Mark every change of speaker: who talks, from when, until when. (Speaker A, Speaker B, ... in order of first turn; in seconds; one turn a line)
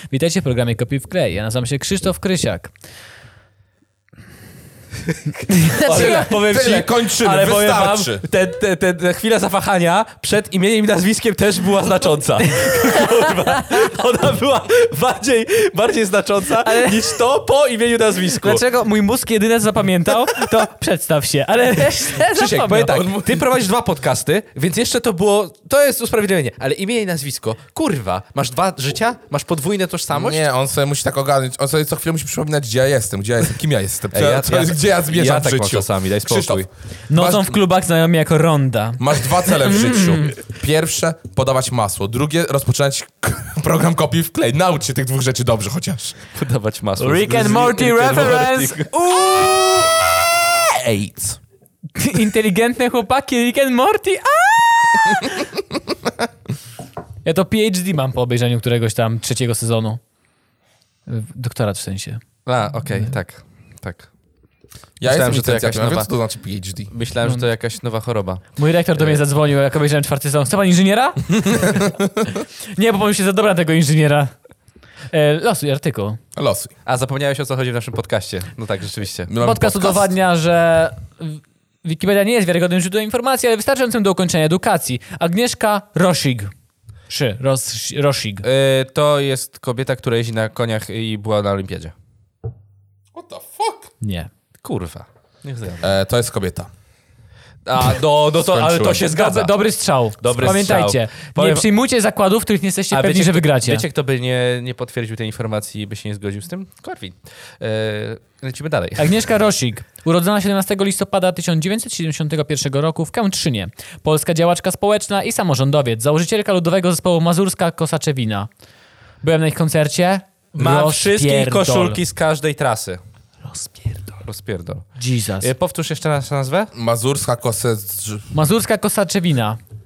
Speaker A: 0.1-2.7
Speaker A: 5.5-6.4
Speaker B: 5.7-18.6
Speaker C: 5.9-8.2
Speaker A: 12.5-13.8
Speaker A: 16.6-17.2
Speaker A: 18.4-23.1
Speaker B: 22.3-30.4
Speaker C: 22.6-23.5
Speaker C: 30.1-37.6
Speaker B: 34.1-36.7
Speaker A: 37.1-40.4
Speaker C: 39.0-46.2
Speaker B: 46.4-48.9
Speaker A: 47.0-49.6
Speaker C: 49.0-51.4
Speaker A: 52.0-55.4
Speaker A: 57.2-60.0
Speaker A: 61.1-62.2
Speaker B: 62.5-64.1
Speaker C: 65.0-66.9
Speaker B: 65.0-66.1
Speaker B: 66.9-68.5
Speaker A: 68.6-74.3
Speaker B: 69.0-69.2
Speaker C: 71.5-72.2
Speaker A: 75.1-76.2
Speaker C: 76.4-76.7
Speaker B: 76.9-79.3
Speaker C: 79.3-80.1
Speaker A: 79.4-86.5
Speaker A: 87.1-88.5
Speaker B: 88.4-91.9
Speaker C: 93.1-93.9
Speaker A: 94.0-94.3
Speaker B: 94.6-95.9
Speaker C: 95.8-96.7
Speaker B: 97.7-99.5
Speaker C: 98.3-99.1
Speaker A: 99.0-103.9
Speaker B: 100.2-101.7
Speaker B: 102.9-109.2
Speaker A: 109.0-118.5
Speaker A: 119.2-122.0
Speaker B: 120.6-123.0
Speaker A: 123.5-124.1
Speaker B: 124.2-124.9
Speaker A: 125.0-125.5
Speaker B: 125.4-126.7
Speaker C: 126.7-128.3
Speaker A: 128.3-129.6